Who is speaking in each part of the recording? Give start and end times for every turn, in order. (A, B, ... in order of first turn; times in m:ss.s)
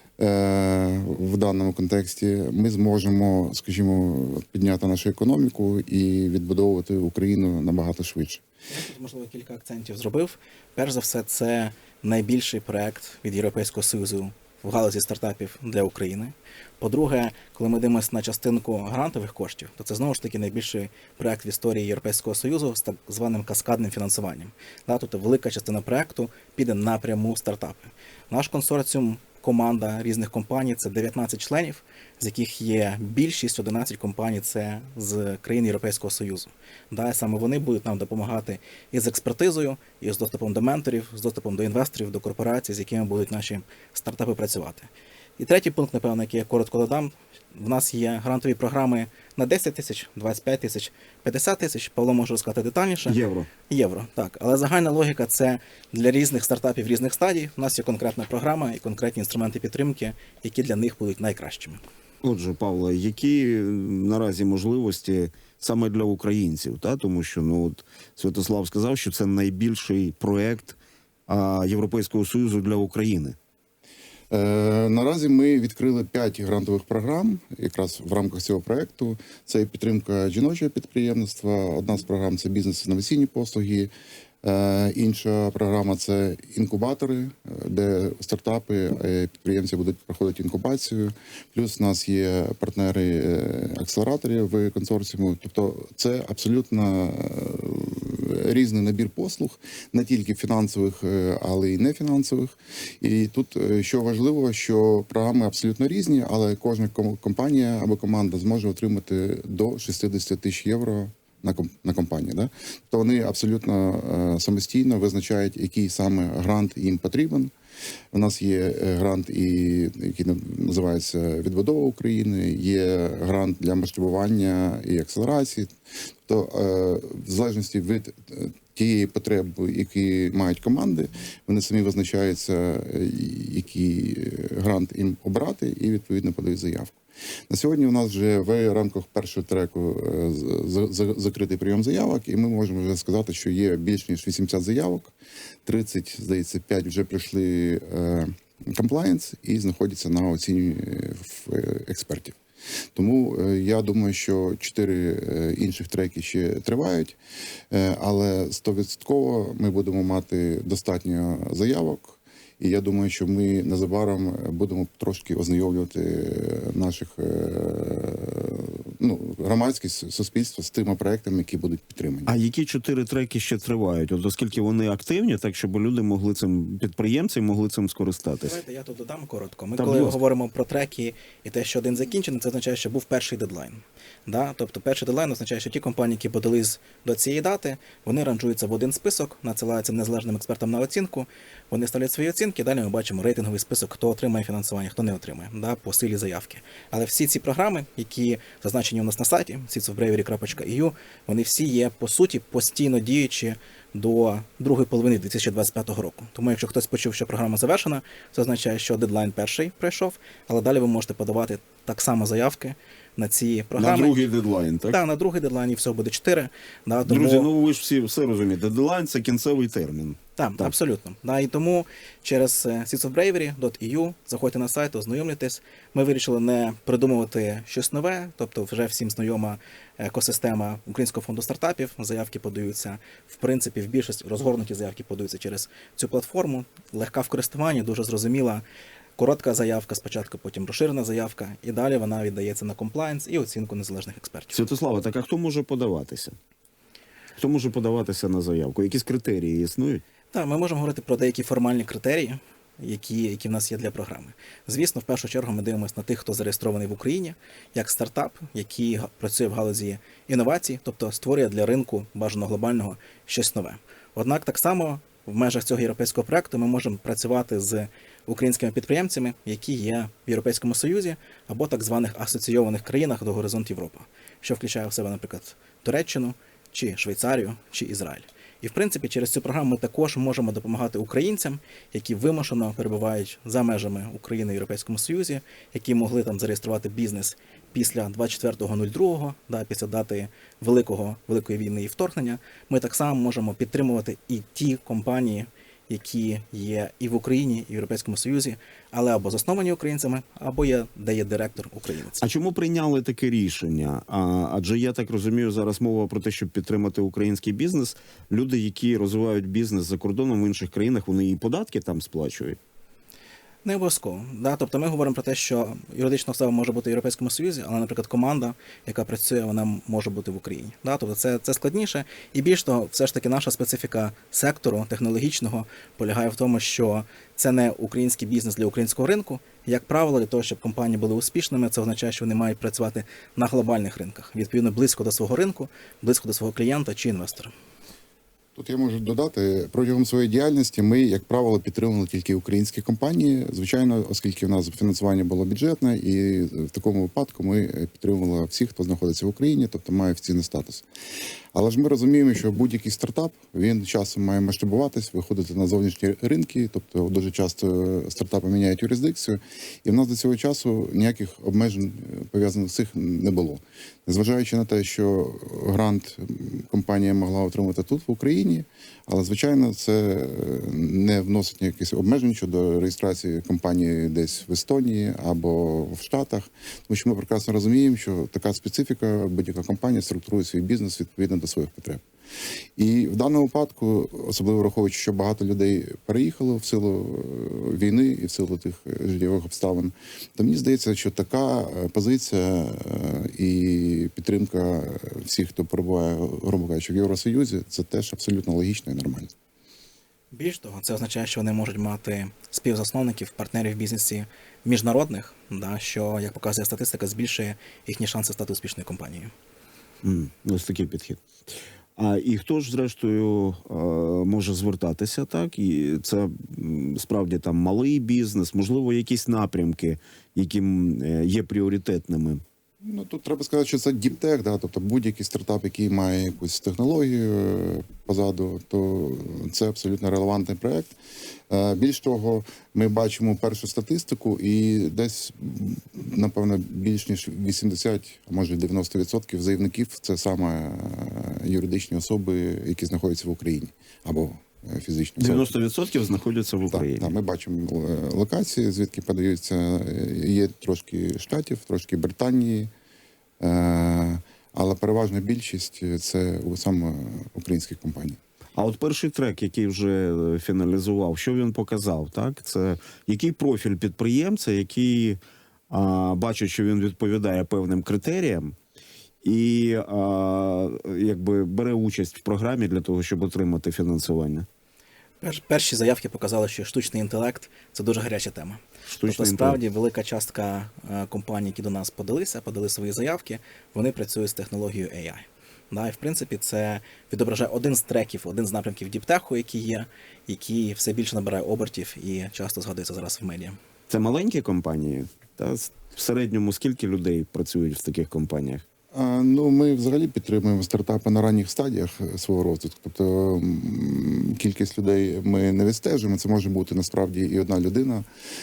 0:00.2-0:08.4 A
0:08.7-0:53.2 B
0:53.0-0:53.5 C
0:53.7-1:01.8 B
1:02.2-1:13.4 C
1:14.3-1:23.9 A
1:24.4-1:57.5 A
1:58.1-2:05.7 A
2:06.2-2:25.1 A
2:25.6-2:32.4 A
2:32.9-2:37.2 A
2:37.7-2:52.3 A
2:52.2-2:58.6 C
2:58.4-3:34.2 B
2:59.8-3:00.2 C
3:33.8-3:35.0 C
3:34.9-3:37.5 B
3:37.0-3:40.7 C
3:40.4-3:58.6 B
3:59.2-4:04.6 B
4:04.5-4:06.4 C
4:07.4-4:10.0 C
4:10.3-5:02.2 B
5:02.2-5:12.6 C
5:13.6-5:37.5 B
5:38.5-5:50.8 A
5:51.5-6:22.0 A
6:22.8-6:39.3 A
6:40.3-6:49.3 B
6:50.0-6:51.2 C
6:52.0-7:02.4 C
7:02.8-7:10.9 A
7:11.5-7:25.5 A
7:25.2-7:27.1 C
7:26.7-7:32.7 A
7:33.4-7:38.2 A
7:38.6-7:48.6 C
7:49.2-7:54.5 C
7:55.2-8:13.6 B
7:58.9-7:59.6 C
8:13.9-8:18.6 C
8:18.9-8:28.0 A